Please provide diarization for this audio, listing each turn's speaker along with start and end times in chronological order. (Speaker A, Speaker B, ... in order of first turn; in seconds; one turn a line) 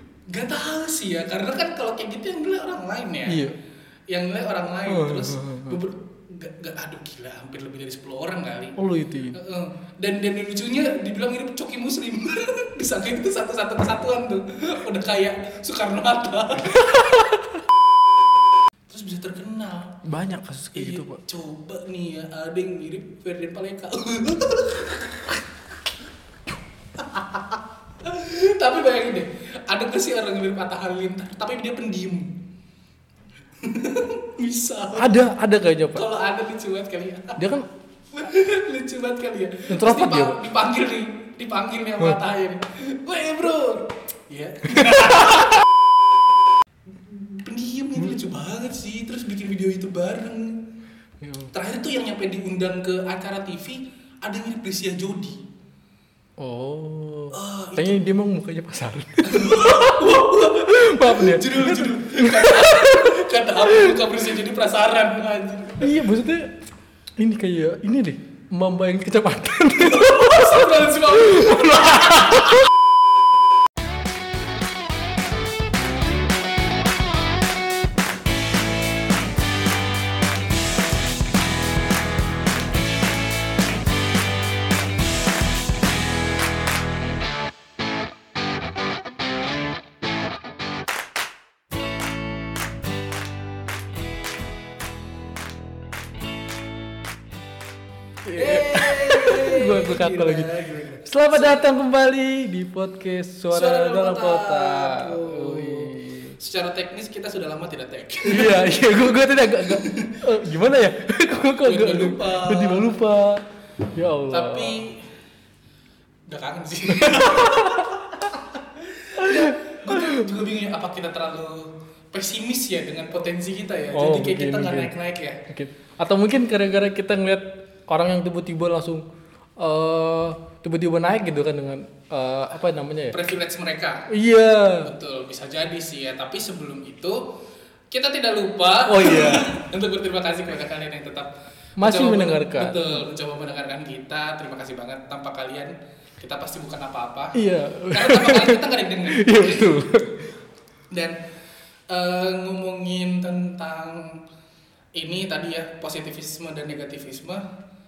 Speaker A: 0.3-3.4
Speaker B: 3.3-3.5
Speaker A: 4.1-8.8
Speaker B: 4.9-5.8
Speaker B: 8.8-9.4
Speaker A: 9.3-17.2
Speaker B: 16.6-17.4
Speaker A: 18.9-20.0
Speaker B: 20.0-21.2
Speaker A: 20.7-25.4
Speaker A: 27.0-32.3
Speaker A: 33.6-35.2
Speaker B: 34.9-36.0
Speaker A: 35.9-37.4
Speaker B: 37.4-37.6
Speaker A: 38.1-45.7
Speaker B: 39.7-40.4
Speaker B: 44.8-45.5
Speaker A: 47.0-50.5
Speaker B: 51.2-51.5
Speaker A: 51.5-55.4
Speaker B: 56.4-64.0
Speaker A: 57.3-58.0
Speaker A: 59.2-66.0
Speaker B: 65.8-66.5
Speaker B: 67.2-72.6
Speaker A: 69.8-72.6
Speaker B: 98.2-100.5
Speaker A: 98.3-101.6
Speaker B: 101.0-106.3
Speaker A: 103.5-110.2
Speaker B: 108.2-114.8
Speaker A: 111.6-113.0
Speaker A: 114.3-115.1
Speaker A: 116.3-125.4
Speaker B: 116.9-117.9
Speaker B: 119.2-120.3
Speaker B: 123.9-124.9
Speaker B: 125.5-129.0
Speaker B: 129.6-133.2
Speaker A: 133.1-134.1
Speaker B: 134.1-134.9
Speaker A: 134.8-137.2
Speaker A: 137.9-149.9
Speaker B: 138.9-139.5
Speaker B: 141.8-143.0
Speaker B: 147.3-150.3
Speaker A: 151.9-154.2
Speaker A: 154.9-157.4